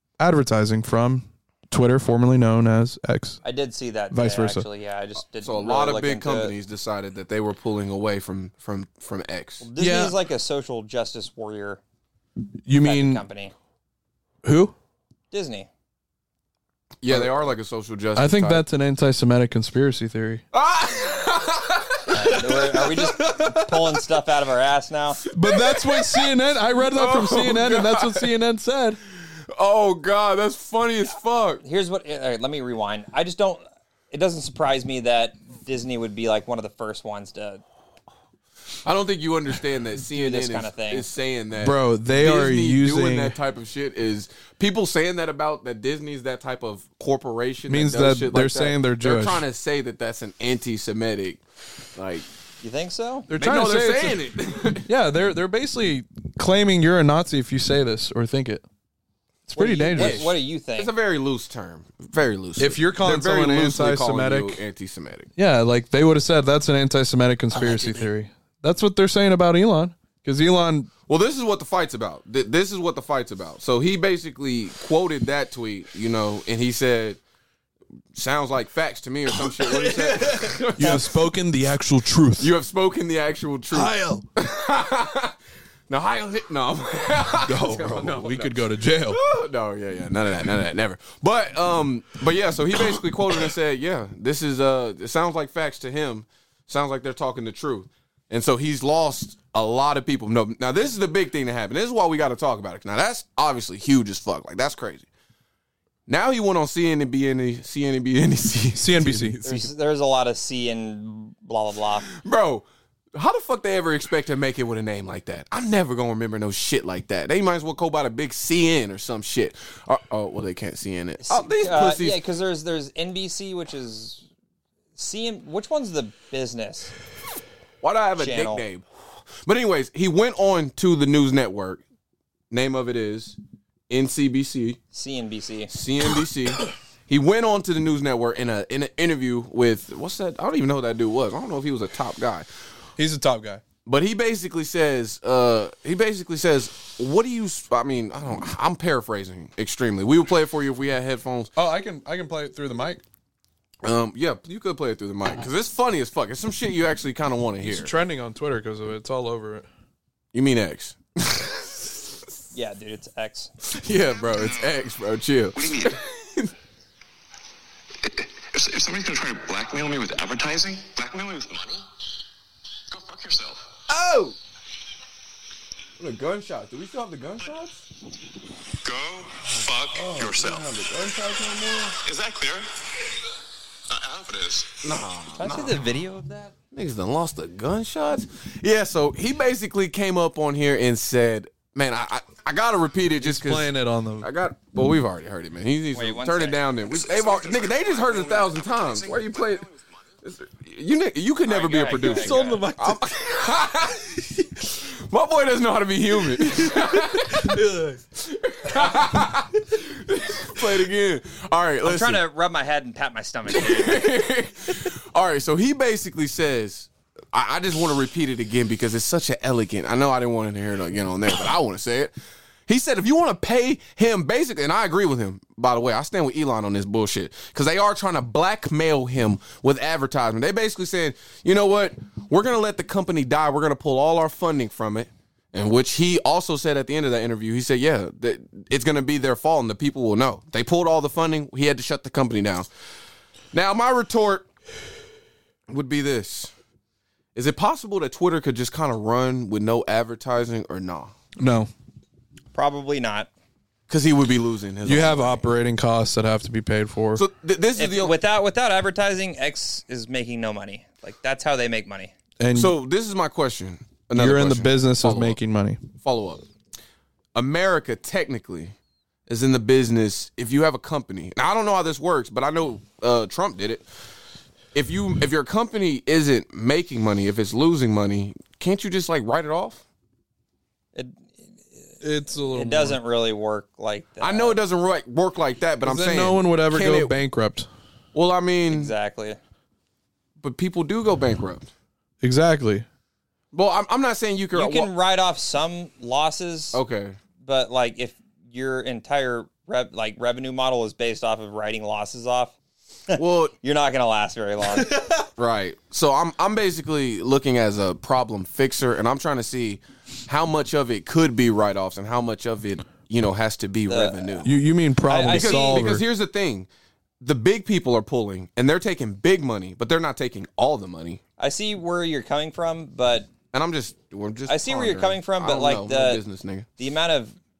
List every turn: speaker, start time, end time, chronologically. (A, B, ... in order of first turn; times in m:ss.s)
0:00.2-0:03.4 A
0:03.4-0:06.5 B
0:04.1-0:04.6 A
0:05.3-0:09.6 C
0:09.6-0:11.8 B
0:09.8-0:10.2 A
0:12.6-0:13.2 A
0:12.8-0:13.5 B
0:14.4-0:14.7 A
0:15.3-0:15.7 B
0:17.0-0:18.6 C
0:18.1-0:20.4 A
0:20.5-0:22.4 C
0:22.1-0:25.2 B
0:22.5-0:24.0 A
0:25.3-0:29.0 A
0:25.5-0:26.2 C
0:26.9-0:28.3 C
0:29.5-0:31.6 C
0:31.6-0:37.6 B
0:38.8-0:51.4 C
0:40.1-0:41.1 B
0:41.6-0:43.3 A
0:47.7-0:49.4 A
0:51.9-0:52.2 C
0:52.6-0:53.3 B
0:53.3-0:54.2 A
0:53.3-0:54.9 C
0:54.9-0:58.6 A
0:59.5-1:00.3 A
0:59.5-1:05.3 C
0:59.9-1:00.9 B
1:02.6-1:04.6 A
1:05.4-1:10.9 A
1:07.5-1:08.1 B
1:11.1-1:17.2 C
1:18.1-1:21.1 C
1:19.4-1:22.5 A
1:22.4-1:25.3 C
1:23.7-1:24.2 A
1:25.9-1:45.1 C
1:27.4-1:29.2 A
1:46.1-1:49.7 C
1:48.8-1:49.4 A
1:49.4-1:52.1 B
1:52.1-2:02.2 C
2:01.2-2:04.2 B
2:05.0-2:06.9 B
2:07.8-2:08.8 C
2:08.2-2:08.6 B
2:09.4-2:11.8 C
2:12.5-2:13.4 C
2:13.9-2:14.8 C
2:14.9-2:15.7 B
2:15.7-2:22.5 C
2:23.0-2:23.6 A
2:23.8-2:31.5 C
2:31.6-2:33.0 A
2:33.8-2:37.9 C
2:37.6-2:39.7 A
2:40.3-2:42.0 C
2:42.5-2:43.5 B
2:43.6-2:46.5 C
2:44.3-2:44.7 D
2:45.5-2:46.0 D
2:48.0-2:51.8 D
2:52.9-2:53.7 D
2:53.9-2:54.4 C
2:56.0-2:57.8 C
2:58.8-3:00.7 D
2:59.5-3:02.0 C
3:02.0-3:02.9 D
3:03.8-3:04.8 D
3:04.8-3:05.8 C
3:05.4-3:06.5 B
3:06.7-3:13.7 C
3:13.2-3:14.3 A
3:14.2-3:19.6 C
3:15.9-3:16.6 B
3:17.0-3:19.9 D
3:20.2-3:27.6 C
3:21.5-3:22.7 B
3:21.9-3:23.1 A
3:26.5-3:28.0 A
3:28.2-3:32.2 C
3:28.8-3:29.1 A
3:31.8-3:34.1 B
3:33.5-3:42.1 C
3:42.7-4:02.7 C
4:03.5-4:04.5 C
4:05.7-4:06.5 C
4:07.3-4:11.1 C
4:11.4-4:11.7 A
4:12.5-4:13.3 B
4:13.9-4:15.4 C
4:14.8-4:17.2 A
4:17.2-4:18.2 C
4:17.8-4:22.1 B
4:22.4-4:22.7 A
4:22.5-4:25.4 C
4:24.2-4:25.8 A
4:26.0-4:26.4 C
4:27.3-4:28.7 C
4:29.3-4:33.8 C
4:34.7-4:39.8 C
4:40.9-4:44.6 B
4:42.0-4:43.0 A
4:44.2-4:47.1 C
4:45.8-4:47.7 A
4:48.1-4:48.9 C
4:48.7-4:49.4 B
4:50.4-4:51.7 C
4:52.2-4:52.8 A
4:53.5-4:54.9 C
4:54.5-4:56.8 B
4:56.7-4:57.2 C
4:57.4-5:02.5 B
5:03.1-5:04.9 B
5:03.1-5:03.5 C
5:04.7-5:05.2 A
5:05.4-5:14.5 C
5:13.9-5:14.3 B
5:14.4-5:16.0 A
5:15.1-5:15.9 B
5:15.3-5:16.7 C
5:17.2-5:21.2 C
5:21.4-5:23.3 B
5:23.5-5:26.6 C
5:24.5-5:26.2 B
5:26.8-5:27.3 B